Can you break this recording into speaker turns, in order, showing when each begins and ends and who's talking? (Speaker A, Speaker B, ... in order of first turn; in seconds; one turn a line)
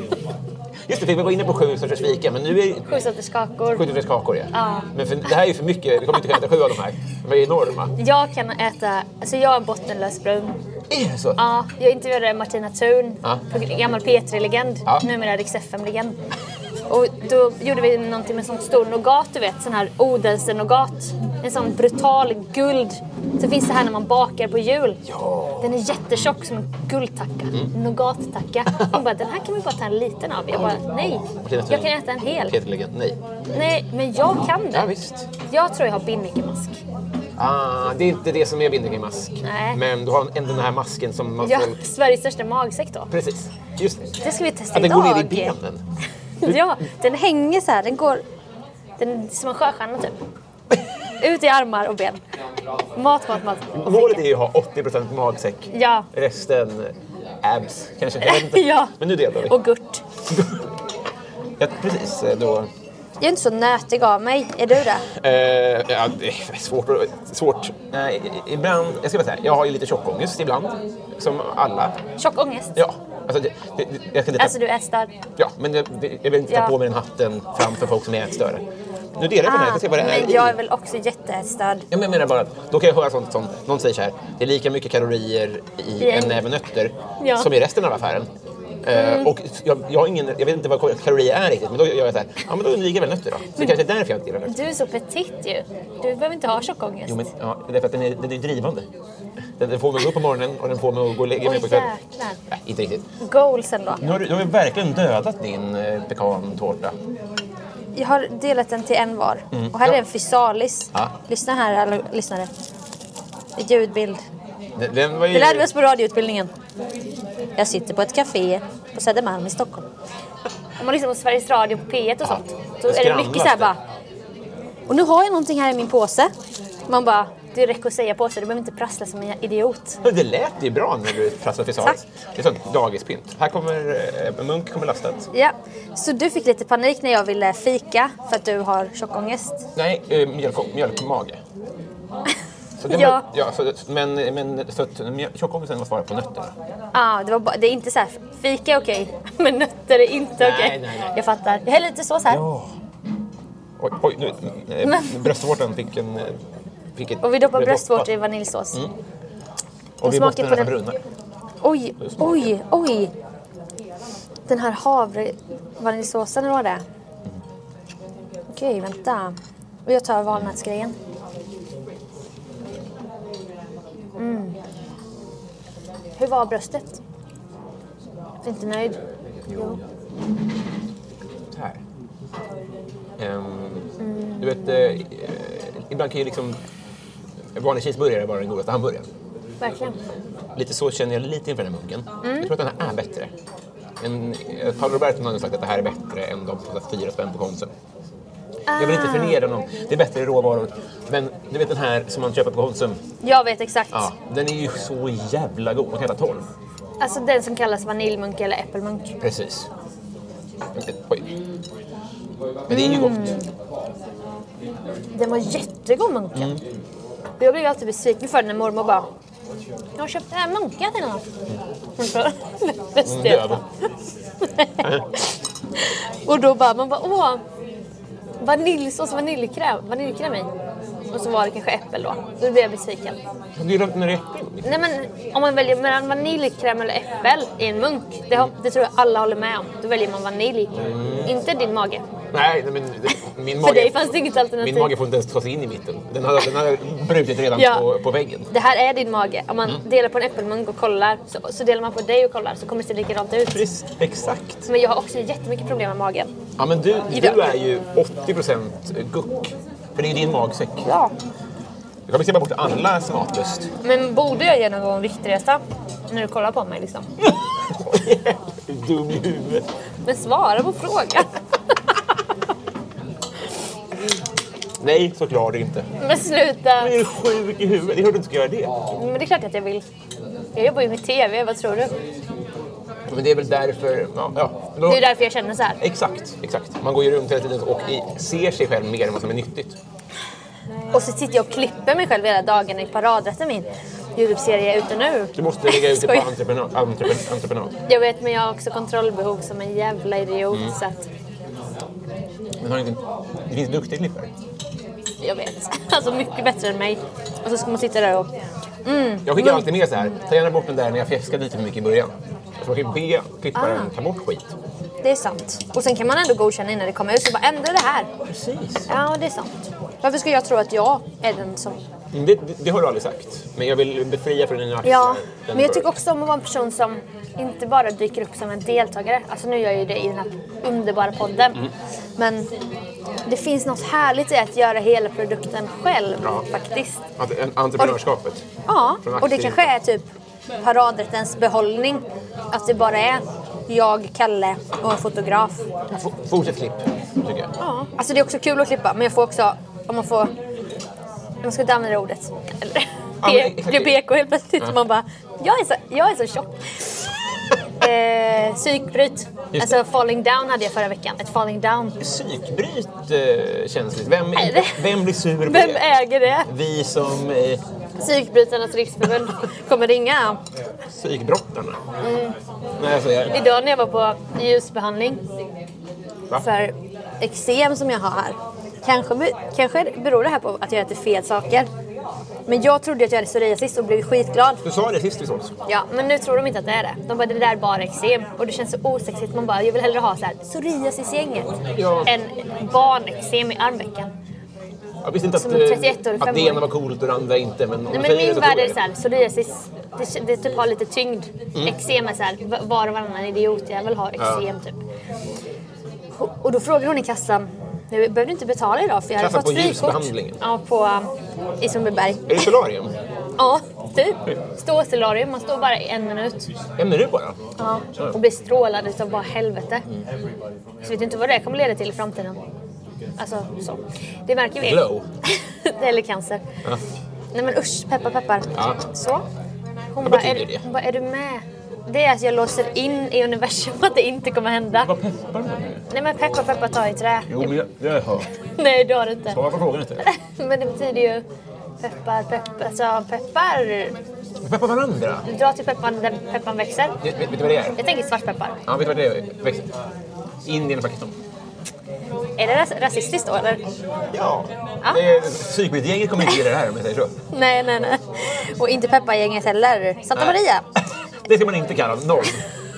Speaker A: 0.9-2.9
Speaker B: 2.9-3.9
Speaker A: 3.7-8.0
Speaker B: 4.5-4.9
Speaker B: 8.0-10.6
Speaker A: 10.9-11.4
Speaker B: 11.4-16.2
Speaker B: 16.9-25.0
Speaker A: 25.1-26.3
Speaker B: 25.6-32.5
Speaker A: 31.4-31.9
Speaker A: 32.5-33.2
Speaker B: 33.5-34.9
Speaker A: 34.7-35.3
Speaker B: 35.5-36.8
Speaker A: 37.4-41.8
Speaker B: 39.4-39.8
Speaker B: 41.4-43.1
Speaker A: 43.1-44.1
Speaker B: 44.2-45.6
Speaker A: 44.7-45.8
Speaker B: 46.4-48.2
Speaker B: 49.0-50.1
Speaker B: 51.2-52.2
Speaker B: 53.0-54.2
Speaker A: 53.7-59.5
Speaker B: 55.7-56.1
Speaker B: 58.2-60.0
Speaker A: 60.3-60.6
Speaker A: 61.6-62.7
Speaker B: 63.2-65.1
Speaker A: 65.2-72.0
Speaker B: 72.2-72.8
Speaker A: 72.8-74.5
Speaker B: 74.4-75.1
Speaker A: 75.4-78.6
Speaker B: 76.5-76.8
Speaker A: 79.2-80.6
Speaker B: 79.4-81.8
Speaker A: 81.9-88.3
Speaker B: 86.0-86.4
Speaker B: 87.2-87.5
Speaker A: 88.8-94.5
Speaker B: 88.9-89.3
Speaker B: 94.5-97.2
Speaker A: 97.1-98.9
Speaker A: 99.6-101.9
Speaker B: 101.4-102.4
Speaker A: 102.5-103.0
Speaker B: 103.2-104.0
Speaker A: 104.0-106.9
Speaker B: 108.0-112.5
Speaker A: 109.5-110.0
Speaker B: 113.6-114.2
Speaker A: 114.8-115.7
Speaker B: 115.3-116.5
Speaker B: 117.6-119.8
Speaker B: 120.8-123.8
Speaker A: 122.2-123.7
Speaker B: 124.9-126.3
Speaker B: 126.9-130.0
Speaker A: 130.0-135.3
Speaker B: 135.3-139.7
Speaker A: 139.8-141.4
Speaker A: 142.8-146.5
Speaker B: 142.9-143.2
Speaker B: 146.9-152.4
Speaker A: 150.4-151.1
Speaker A: 152.3-152.8
Speaker A: 153.8-156.4
Speaker B: 154.8-155.3
Speaker A: 157.0-158.1
Speaker B: 157.2-158.8
Speaker A: 160.0-161.0
Speaker B: 160.0-160.7
Speaker B: 161.6-163.1
Speaker A: 162.0-162.5
Speaker B: 164.5-166.8
Speaker B: 168.5-169.3
Speaker B: 169.9-170.9
Speaker B: 174.2-174.6
Speaker B: 176.2-177.0
Speaker B: 178.4-179.0
Speaker B: 179.5-179.8
Speaker A: 181.5-181.8
Speaker A: 183.2-186.6
Speaker B: 184.0-184.5
Speaker A: 187.6-189.1
Speaker B: 189.6-190.0
Speaker A: 190.6-193.3
Speaker B: 192.2-192.5
Speaker A: 194.0-197.7
Speaker B: 198.7-199.4
Speaker A: 198.8-203.0
Speaker B: 203.2-204.1
Speaker A: 203.9-206.5
Speaker B: 207.0-209.2
Speaker A: 209.2-209.7
Speaker A: 210.8-211.3
Speaker A: 212.7-213.3
Speaker B: 212.7-213.5
Speaker B: 215.1-216.6
Speaker A: 216.3-216.6
Speaker B: 217.4-219.1
Speaker B: 220.0-221.2
Speaker B: 222.0-223.6
Speaker A: 223.1-223.6
Speaker B: 224.4-225.3
Speaker B: 226.2-227.4
Speaker B: 228.4-230.5
Speaker B: 231.1-233.2
Speaker A: 233.6-234.8
Speaker B: 234.6-240.7
Speaker A: 240.7-241.3
Speaker B: 241.2-242.0
Speaker A: 242.3-248.5
Speaker B: 243.6-244.9
Speaker B: 247.5-247.8
Speaker B: 248.5-253.6
Speaker A: 253.5-254.7
Speaker B: 254.7-256.3
Speaker A: 256.6-260.8
Speaker B: 257.1-257.5
Speaker B: 260.8-261.1
Speaker A: 262.1-263.7
Speaker B: 263.8-267.1
Speaker A: 267.2-269.6
Speaker B: 270.1-271.3
Speaker A: 274.8-275.9
Speaker B: 276.0-276.9
Speaker A: 276.8-278.7
Speaker B: 278.9-279.8
Speaker B: 280.6-281.9
Speaker A: 283.1-285.1
Speaker B: 284.9-285.8
Speaker A: 285.8-289.8
Speaker B: 290.9-296.3
Speaker A: 295.4-297.7
Speaker B: 297.9-301.1
Speaker A: 302.6-304.3
Speaker B: 305.2-308.3
Speaker B: 308.9-309.7
Speaker A: 309.3-314.6
Speaker B: 313.6-313.9
Speaker B: 315.0-318.1
Speaker A: 318.3-318.9
Speaker B: 318.9-321.8
Speaker A: 322.1-325.9
Speaker B: 324.8-332.5
Speaker B: 333.3-337.0
Speaker A: 337.2-338.4
Speaker B: 338.7-340.1
Speaker A: 339.0-339.7
Speaker B: 340.6-345.6
Speaker A: 345.9-347.5
Speaker B: 347.6-350.3
Speaker B: 351.4-356.5
Speaker A: 353.2-354.0
Speaker B: 357.8-362.0
Speaker A: 359.5-359.8
Speaker A: 362.0-367.6
Speaker B: 364.4-364.8
Speaker B: 365.4-366.5
Speaker B: 368.0-370.4
Speaker A: 370.9-371.8
Speaker B: 372.0-372.4
Speaker A: 372.8-373.4
Speaker B: 373.3-375.2
Speaker B: 376.4-381.7
Speaker B: 382.5-384.6
Speaker A: 384.6-385.6
Speaker B: 385.7-394.1
Speaker A: 391.7-392.1
Speaker A: 395.0-398.8
Speaker B: 395.3-396.6
Speaker B: 397.9-404.8
Speaker A: 404.2-404.4
Speaker B: 406.1-412.5
Speaker A: 409.2-410.4
Speaker A: 412.3-412.9
Speaker B: 413.4-416.5
Speaker A: 416.8-417.4
Speaker B: 417.6-419.9
Speaker B: 420.8-422.4
Speaker B: 423.2-426.4
Speaker A: 424.6-425.1
Speaker B: 427.3-429.2
Speaker B: 429.9-434.9
Speaker A: 430.0-430.6
Speaker A: 434.8-435.8
Speaker B: 435.9-437.6
Speaker A: 437.3-438.3
Speaker B: 438.6-439.4
Speaker A: 439.3-440.0
Speaker B: 440.0-441.2
Speaker B: 441.8-444.0
Speaker A: 444.4-445.3
Speaker B: 445.2-447.0
Speaker A: 447.0-447.8
Speaker B: 447.8-448.6
Speaker A: 448.7-449.7
Speaker A: 450.4-451.1
Speaker B: 452.4-453.6
Speaker A: 454.1-457.1
Speaker B: 457.3-460.7
Speaker A: 461.2-462.4